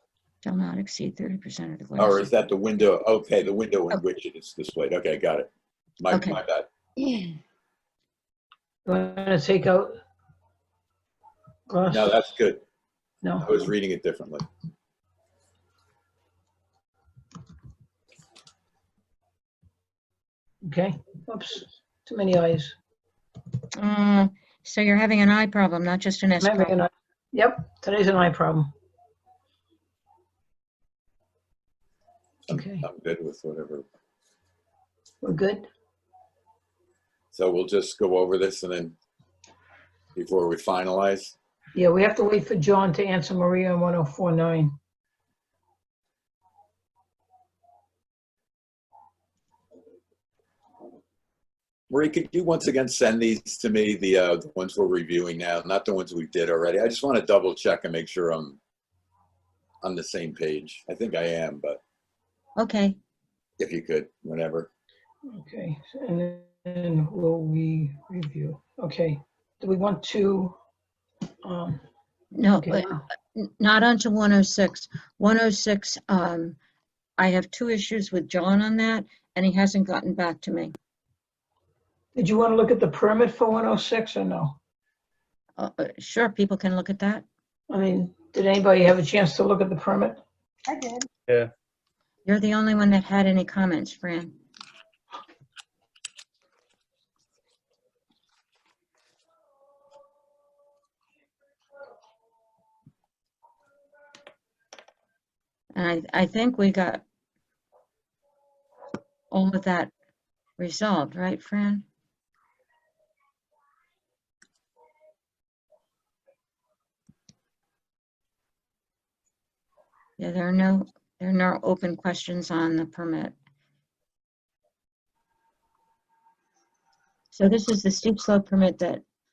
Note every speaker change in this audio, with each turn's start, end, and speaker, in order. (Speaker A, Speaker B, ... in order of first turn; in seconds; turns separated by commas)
Speaker A: 0.4-2.3, Speaker B: 2.0-6.7, Speaker A: 6.1-6.4, Speaker C: 8.9-10.0, Speaker C: 11.7-12.2, Speaker B: 11.9-12.6, Speaker C: 13.2-13.6, Speaker B: 13.4-14.4, Speaker C: 20.6-22.8, Speaker A: 23.8-26.8, Speaker C: 26.4-28.7, Speaker C: 32.5-32.9, Speaker B: 32.5-33.8, Speaker C: 35.2-35.7, Speaker B: 37.3-39.0, Speaker B: 40.2-41.4, Speaker C: 41.8-44.8, Speaker B: 51.9-58.6, Speaker B: 59.8-61.8, Speaker A: 62.6-63.0, Speaker B: 63.6-64.7, Speaker C: 65.3-70.5, Speaker C: 71.5-71.8, Speaker A: 72.3-76.6, Speaker C: 72.6-73.0, Speaker A: 77.2-80.8, Speaker C: 82.2-84.6, Speaker A: 85.6-87.2, Speaker C: 87.7-90.2, Speaker A: 92.3-94.4, Speaker A: 105.7-107.0, Speaker A: 109.3-109.9, Speaker A: 110.6-111.8, Speaker A: 120.2-123.3, Speaker A: 127.3-129.0